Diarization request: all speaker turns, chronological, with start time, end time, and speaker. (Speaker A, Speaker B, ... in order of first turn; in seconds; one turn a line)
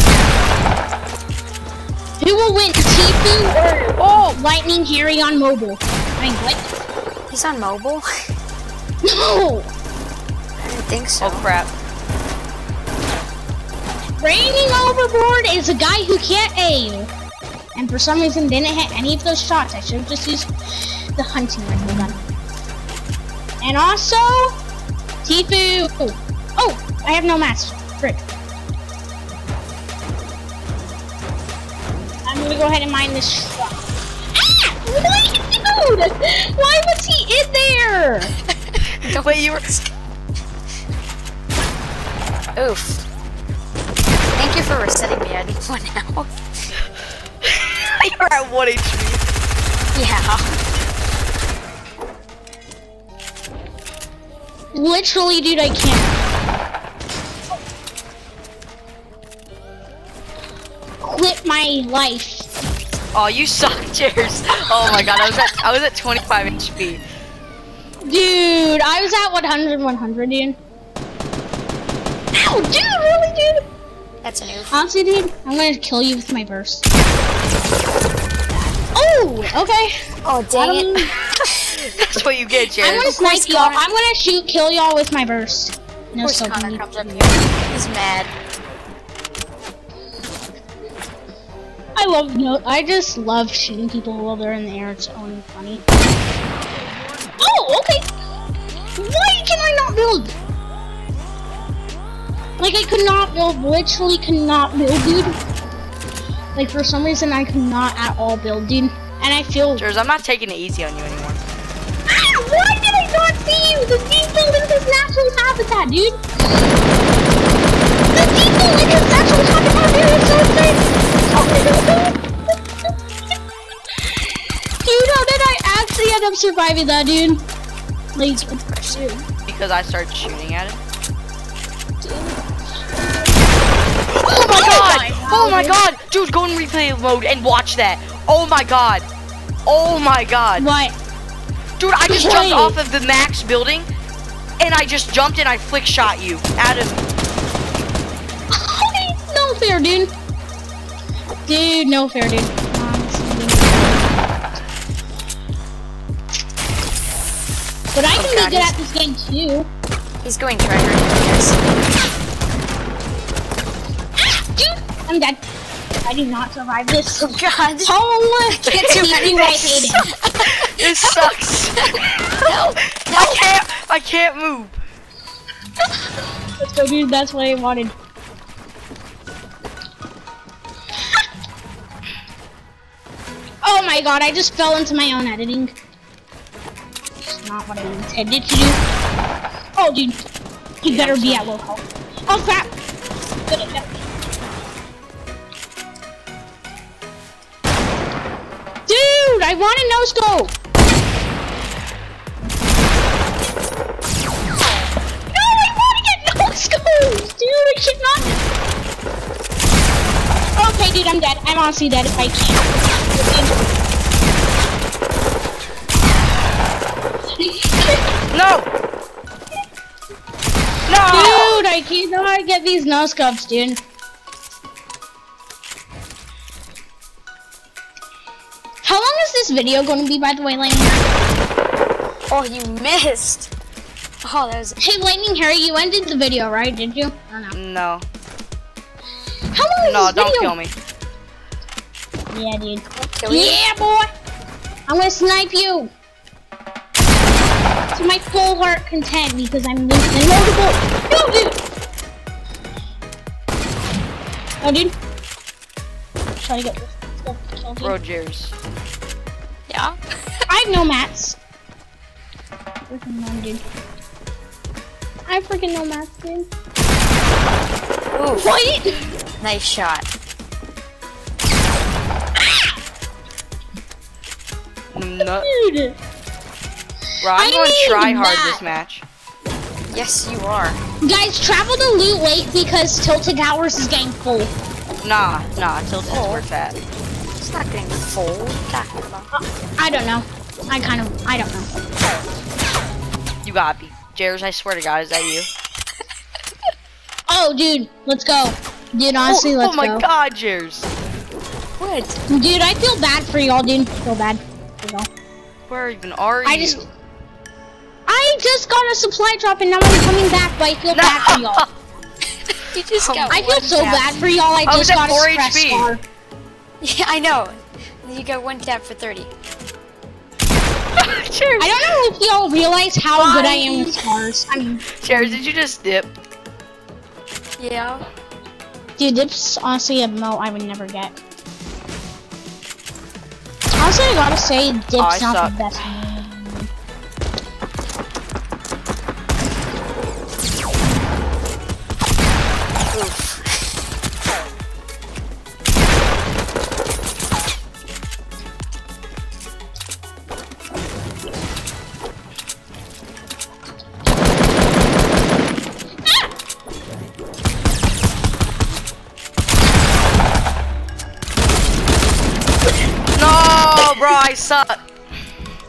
Speaker A: 2.2-6.6
Speaker B: 4.0-4.4
Speaker C: 7.3-8.1
Speaker A: 9.0-9.7
Speaker C: 10.6-11.5
Speaker B: 11.2-11.7
Speaker A: 14.2-17.1
Speaker A: 17.7-22.2
Speaker A: 23.6-24.6
Speaker A: 25.2-28.2
Speaker A: 32.2-33.8
Speaker A: 34.3-38.4
Speaker C: 38.5-39.9
Speaker B: 39.0-39.6
Speaker C: 42.5-43.0
Speaker C: 44.4-46.7
Speaker B: 47.4-49.2
Speaker C: 49.9-50.5
Speaker A: 54.7-56.2
Speaker A: 61.0-62.5
Speaker B: 63.1-67.0
Speaker A: 68.1-70.6
Speaker A: 72.3-73.6
Speaker C: 74.2-74.8
Speaker A: 74.7-76.8
Speaker A: 78.9-81.1
Speaker C: 80.2-82.2
Speaker B: 82.0-83.1
Speaker C: 82.8-83.8
Speaker A: 82.8-87.3
Speaker C: 86.2-88.3
Speaker A: 92.0-95.8
Speaker A: 97.4-98.1
Speaker A: 99.0-100.3
Speaker A: 102.6-105.4
Speaker A: 106.5-109.8
Speaker B: 109.8-111.4
Speaker A: 112.1-116.2
Speaker A: 118.1-122.2
Speaker A: 124.8-127.5
Speaker A: 128.1-129.2
Speaker C: 128.3-129.1
Speaker B: 129.5-130.8
Speaker A: 132.1-132.4
Speaker B: 134.1-139.1
Speaker A: 134.3-135.8
Speaker B: 139.7-140.7
Speaker A: 140.6-140.9
Speaker B: 141.8-143.9
Speaker A: 142.1-142.8
Speaker B: 144.6-147.0
Speaker A: 148.5-150.1
Speaker A: 151.5-154.0
Speaker A: 157.9-159.7
Speaker C: 158.1-158.7
Speaker C: 160.2-161.6
Speaker A: 164.2-165.4
Speaker A: 166.0-170.1
Speaker C: 167.1-167.9
Speaker C: 168.5-171.3
Speaker B: 168.7-169.3
Speaker B: 170.4-174.8
Speaker C: 171.8-173.6
Speaker A: 176.6-177.9
Speaker A: 183.6-185.7
Speaker A: 187.2-188.8
Speaker A: 189.8-190.2
Speaker A: 190.8-192.7
Speaker B: 190.8-191.5
Speaker A: 193.5-193.9
Speaker A: 198.9-200.5
Speaker A: 205.3-208.4
Speaker A: 210.6-213.5
Speaker A: 217.4-218.0
Speaker B: 218.3-218.7
Speaker B: 220.9-221.6
Speaker A: 221.0-223.8
Speaker A: 228.8-231.0
Speaker C: 232.3-233.5
Speaker C: 234.2-234.8
Speaker A: 234.8-237.6
Speaker B: 237.5-238.1
Speaker A: 239.5-240.5
Speaker B: 239.8-240.7
Speaker A: 242.3-244.1
Speaker C: 242.9-243.6
Speaker A: 244.9-245.9
Speaker A: 247.9-251.6
Speaker A: 254.6-254.9
Speaker A: 256.4-257.9
Speaker B: 257.8-258.5
Speaker C: 259.7-260.0
Speaker A: 260.5-261.4
Speaker A: 262.9-263.6
Speaker A: 265.3-266.5
Speaker C: 268.1-268.5
Speaker A: 268.4-269.1
Speaker C: 269.4-270.1
Speaker A: 272.4-272.7
Speaker B: 274.9-275.5
Speaker A: 275.2-276.0
Speaker B: 277.2-279.0
Speaker A: 277.3-278.7
Speaker C: 279.9-280.8
Speaker A: 281.0-284.5
Speaker B: 285.0-286.8
Speaker C: 286.1-286.4
Speaker C: 287.4-289.3
Speaker A: 289.3-291.7
Speaker B: 293.4-295.5
Speaker A: 297.3-300.0
Speaker B: 299.2-300.9
Speaker C: 301.8-302.2
Speaker A: 302.3-305.1
Speaker B: 305.7-306.9
Speaker A: 306.4-306.8
Speaker A: 308.1-311.6
Speaker B: 310.9-311.7
Speaker C: 312.4-314.2
Speaker B: 312.9-313.3
Speaker A: 313.3-316.0
Speaker B: 314.6-315.9
Speaker C: 316.8-319.3
Speaker B: 320.9-322.0
Speaker A: 321.6-325.4
Speaker C: 323.2-324.1
Speaker B: 325.0-326.1
Speaker C: 327.6-328.0
Speaker A: 329.0-331.2
Speaker A: 333.8-336.7
Speaker B: 335.0-335.6
Speaker C: 342.9-343.7
Speaker A: 356.0-356.3
Speaker B: 363.1-364.9